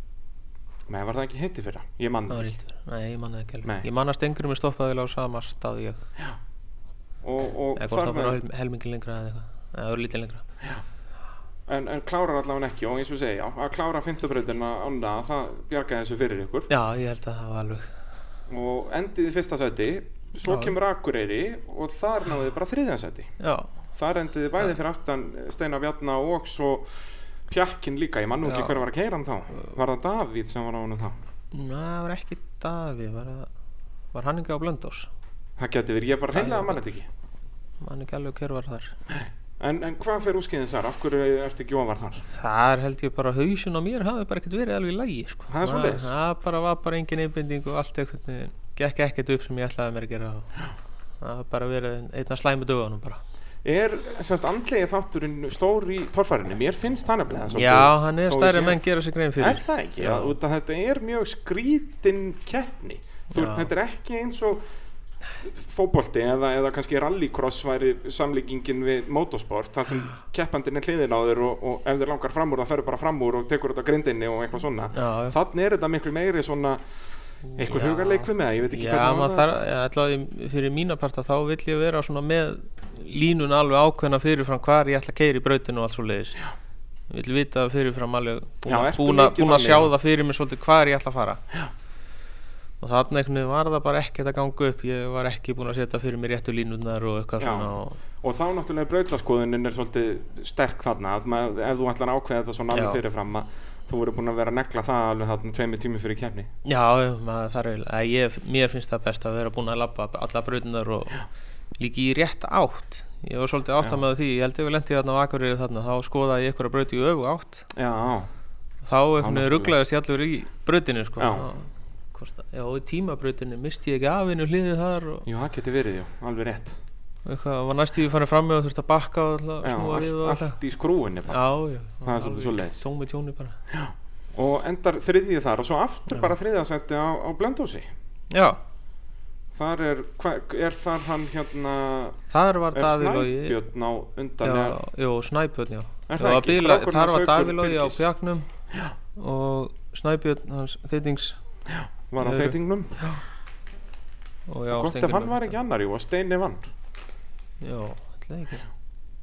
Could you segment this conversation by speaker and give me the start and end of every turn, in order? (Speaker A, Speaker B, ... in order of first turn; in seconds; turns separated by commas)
Speaker A: 0.9-2.6, Speaker B: 2.3-6.1, Speaker A: 7.2-8.4, Speaker B: 7.8-10.4, Speaker A: 11.7-16.7, Speaker B: 16.7-17.9, Speaker A: 18.5-23.3, Speaker B: 20.5-20.8, Speaker B: 23.4-23.7, Speaker A: 23.9-31.2, Speaker B: 28.4-28.8, Speaker B: 31.5-33.5, Speaker B: 34.1-35.1, Speaker A: 35.6-37.1, Speaker B: 36.3-36.8, Speaker B: 37.8-39.0, Speaker A: 39.1-42.2, Speaker B: 42.3-50.5, Speaker A: 45.5-46.1, Speaker B: 51.2-53.2, Speaker A: 53.6-58.8, Speaker B: 57.5-60.3, Speaker A: 59.4-64.6, Speaker B: 63.3-63.7, Speaker A: 65.4-76.9, Speaker B: 74.9-75.4, Speaker B: 77.5-86.5, Speaker A: 77.5-79.5, Speaker B: 87.1-91.4, Speaker A: 88.7-89.9, Speaker B: 92.8-98.0, Speaker A: 97.4-106.5, Speaker B: 102.7-103.0, Speaker B: 106.6-111.3, Speaker B: 111.8-117.7, Speaker A: 117.7-118.3, Speaker B: 118.8-125.3, Speaker A: 119.2-119.8, Speaker A: 121.2-121.5, Speaker A: 125.3-126.8, Speaker B: 127.2-130.6, Speaker A: 129.6-131.4, Speaker B: 131.3-133.6, Speaker A: 132.0-132.8, Speaker A: 133.7-137.9, Speaker B: 138.3-138.6, Speaker A: 139.5-142.2, Speaker B: 142.3-143.6, Speaker A: 142.7-144.8, Speaker B: 144.4-148.5, Speaker A: 146.1-148.0, Speaker B: 149.2-151.4, Speaker A: 151.7-153.0, Speaker B: 152.2-153.2, Speaker B: 154.5-155.6, Speaker A: 154.7-156.7, Speaker B: 157.6-158.7